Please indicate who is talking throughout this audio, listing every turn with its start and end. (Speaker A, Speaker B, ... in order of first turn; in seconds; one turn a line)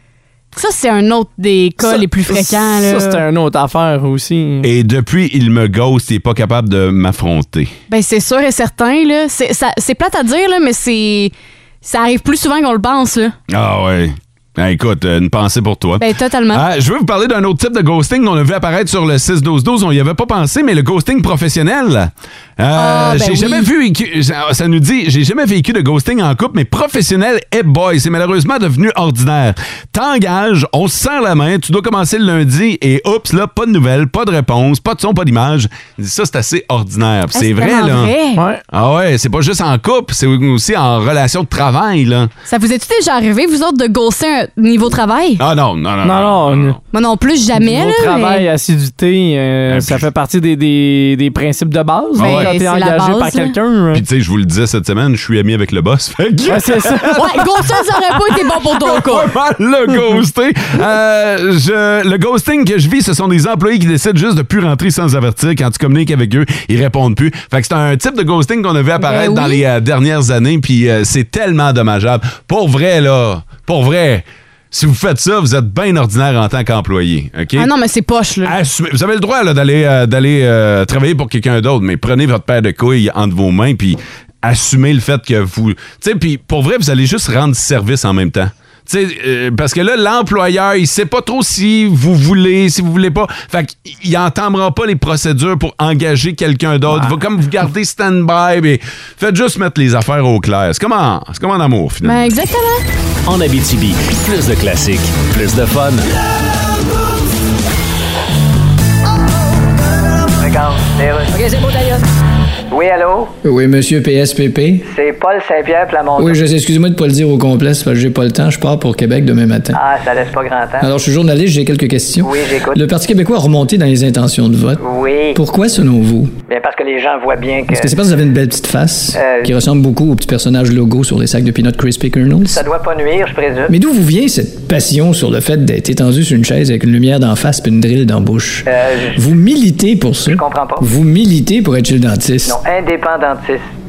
Speaker A: 0.6-3.2
Speaker B: 1.8-4.7
Speaker C: 4.6-7.7
Speaker A: 7.9-13.3
Speaker C: 13.5-38.1
Speaker A: 16.0-16.6
Speaker A: 22.8-23.7
Speaker A: 37.3-38.4
Speaker B: 38.4-38.6
Speaker C: 38.7-42.3
Speaker A: 42.5-45.4
Speaker C: 45.4-46.8
Speaker B: 46.0-46.8
Speaker A: 46.9-48.5
Speaker B: 47.6-54.0
Speaker C: 49.7-50.1
Speaker A: 52.2-53.5
Speaker C: 52.2-52.5
Speaker C: 53.9-57.8
Speaker B: 56.5-57.3
Speaker A: 57.1-59.3
Speaker C: 58.7-77.7
Speaker A: 69.0-69.6
Speaker A: 77.6-78.5
Speaker C: 78.5-102.2
Speaker A: 102.0-102.8
Speaker D: 103.3-106.0
Speaker E: 110.4-112.0
Speaker E: 112.7-113.3
Speaker F: 113.4-114.9
Speaker E: 114.8-116.4
Speaker F: 116.2-119.8
Speaker E: 119.7-120.9
Speaker F: 120.8-126.4
Speaker E: 122.2-122.8
Speaker E: 124.8-125.4
Speaker E: 126.5-128.0
Speaker F: 127.7-132.6
Speaker E: 129.2-129.5
Speaker E: 132.5-133.7
Speaker F: 133.7-142.6
Speaker E: 138.7-139.2
Speaker E: 140.3-140.8
Speaker E: 142.5-143.7